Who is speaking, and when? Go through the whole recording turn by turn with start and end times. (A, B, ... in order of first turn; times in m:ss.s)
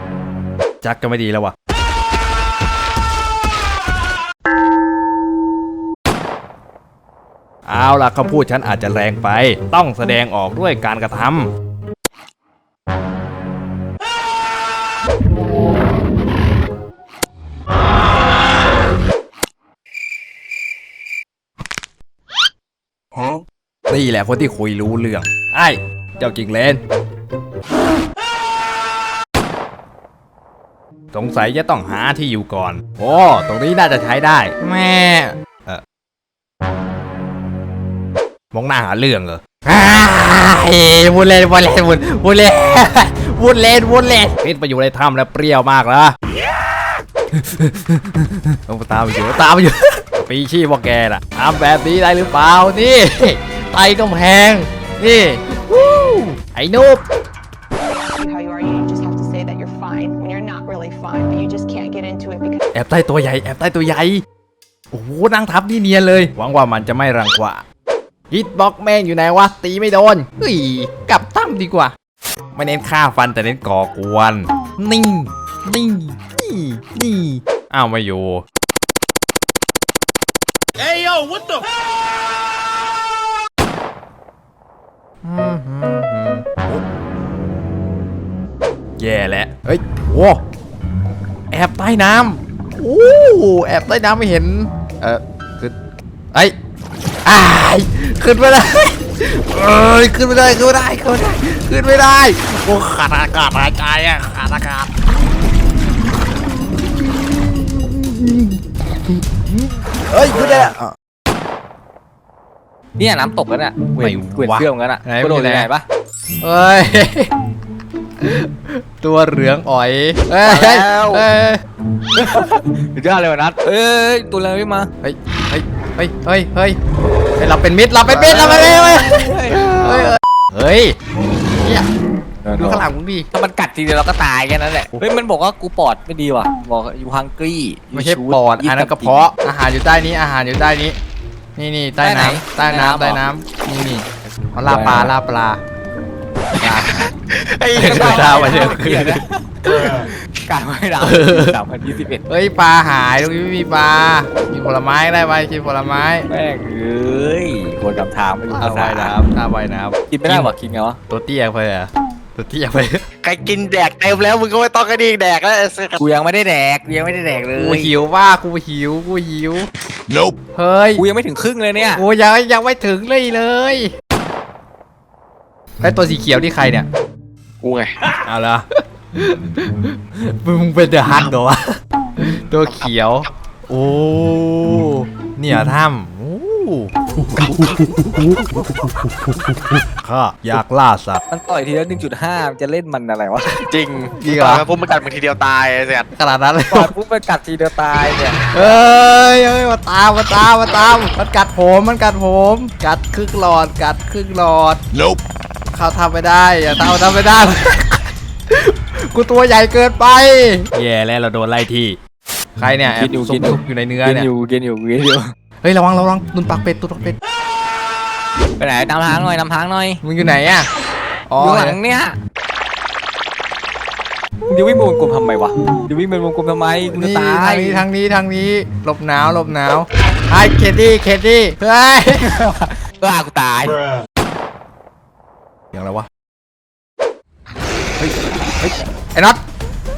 0:00.8-0:01.5 A
0:07.7-0:11.5 A
0:23.9-0:26.8 A
0:31.1-0:35.8 A
0:38.5-0:46.1 A
0:47.3-0:57.0 A
0:57.8-1:02.6 B
1:02.7-1:04.2 A
1:04.9-1:07.6 A
1:08.3-1:11.9 A
1:12.5-1:18.4 A
1:20.8-1:21.6 A
1:25.2-1:26.8 A
1:29.0-1:30.4 A
1:31.5-1:35.7 A
1:37.2-1:44.9 A
1:46.7-1:48.6 A
1:49.3-1:50.9 A
1:50.3-1:50.7 C
1:53.0-1:55.8 D
1:54.0-1:55.7 A
1:56.4-1:57.3 A
1:58.2-2:01.6 A
2:00.4-2:01.2 C
2:02.1-2:04.9 D
2:05.0-2:06.8 A
2:07.4-2:10.9 A
2:08.2-2:10.2 D
2:11.6-2:11.9 A
2:12.4-2:19.3 D
2:12.5-2:13.3 A
2:17.9-2:21.0 A
2:21.6-2:25.6 A
2:22.0-2:23.2 D
2:24.6-2:25.1 D
2:26.6-2:27.0 A
2:27.3-2:28.6 C
2:27.7-2:29.2 A
2:27.8-2:32.2 D
2:31.0-2:31.6 A
2:32.3-2:36.3 A
2:36.3-2:39.2 D
2:38.5-2:40.5 A
2:40.1-2:41.0 D
2:41.1-2:43.0 A
2:43.2-2:46.0 C
2:46.0-2:47.9 D
2:47.5-2:49.7 A
2:50.5-2:51.0 A
2:51.0-2:52.0 D
2:51.9-2:53.9 A
2:55.8-2:56.9 A
2:57.6-2:58.2 C
2:58.2-3:08.6 A
3:09.9-3:11.2 A
3:11.3-3:13.6 D
3:13.6-3:16.1 C
3:14.2-3:14.6 A
3:16.1-3:16.9 A
3:16.7-3:18.4 D
3:18.5-3:24.8 A
3:25.7-3:32.0 A
3:32.6-3:34.3 A
3:33.0-3:35.3 D
3:35.6-3:37.2 A
3:38.6-3:40.0 D
3:40.0-3:40.7 A
3:41.3-3:41.8 A
3:41.4-3:42.2 D
3:44.5-3:47.8 D
3:46.9-3:52.3 A
3:52.1-3:53.8 D
3:55.7-3:56.1 A
3:58.0-3:59.4 A